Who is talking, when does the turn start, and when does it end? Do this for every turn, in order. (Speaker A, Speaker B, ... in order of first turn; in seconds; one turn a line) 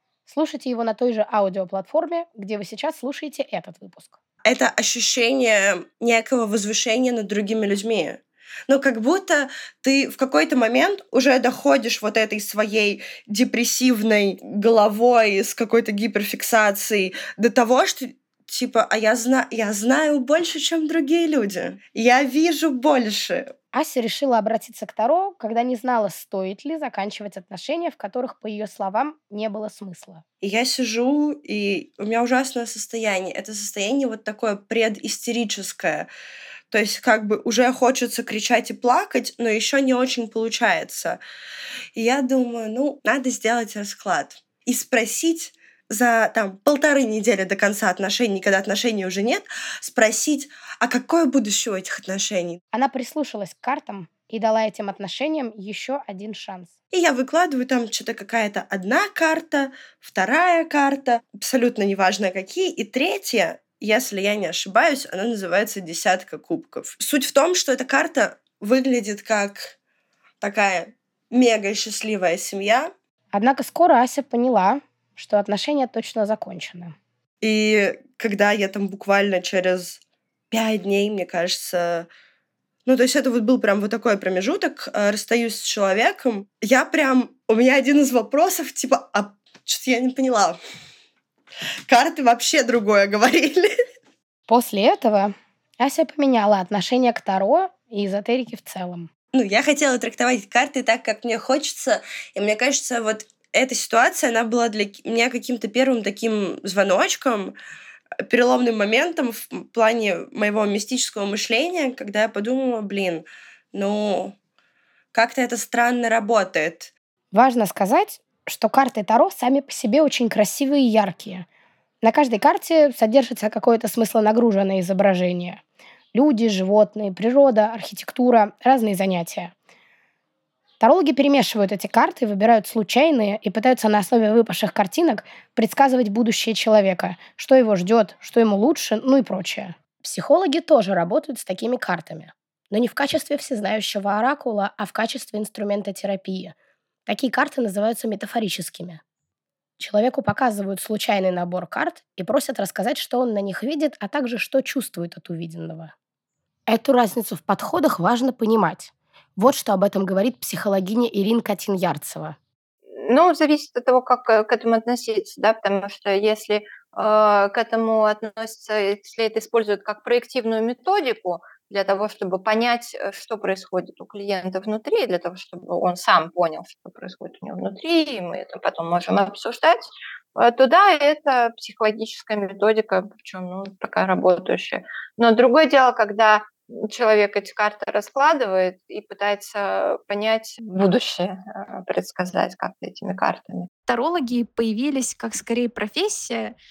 Speaker A: 0.3-4.2
Speaker B: 4.5-23.5
Speaker A: 23.7-30.2
Speaker B: 30.4-36.1
Speaker B: 36.7-41.2
Speaker B: 42.0-52.6
Speaker A: 52.7-56.7
Speaker B: 56.9-69.8
Speaker B: 70.4-72.9
Speaker A: 73.3-77.0
Speaker B: 77.4-82.1
Speaker B: 82.9-90.6
Speaker B: 91.9-93.8
Speaker A: 94.5-99.1
Speaker B: 99.3-107.5
Speaker B: 108.2-114.4
Speaker B: 115.1-116.9
Speaker A: 117.3-121.5
Speaker A: 122.0-125.6
Speaker A: 126.1-129.5
Speaker A: 130.8-146.6
Speaker A: 147.1-149.0
Speaker A: 149.8-155.9
Speaker A: 156.7-162.4
Speaker C: 162.9-193.7
Speaker D: 193.9-196.6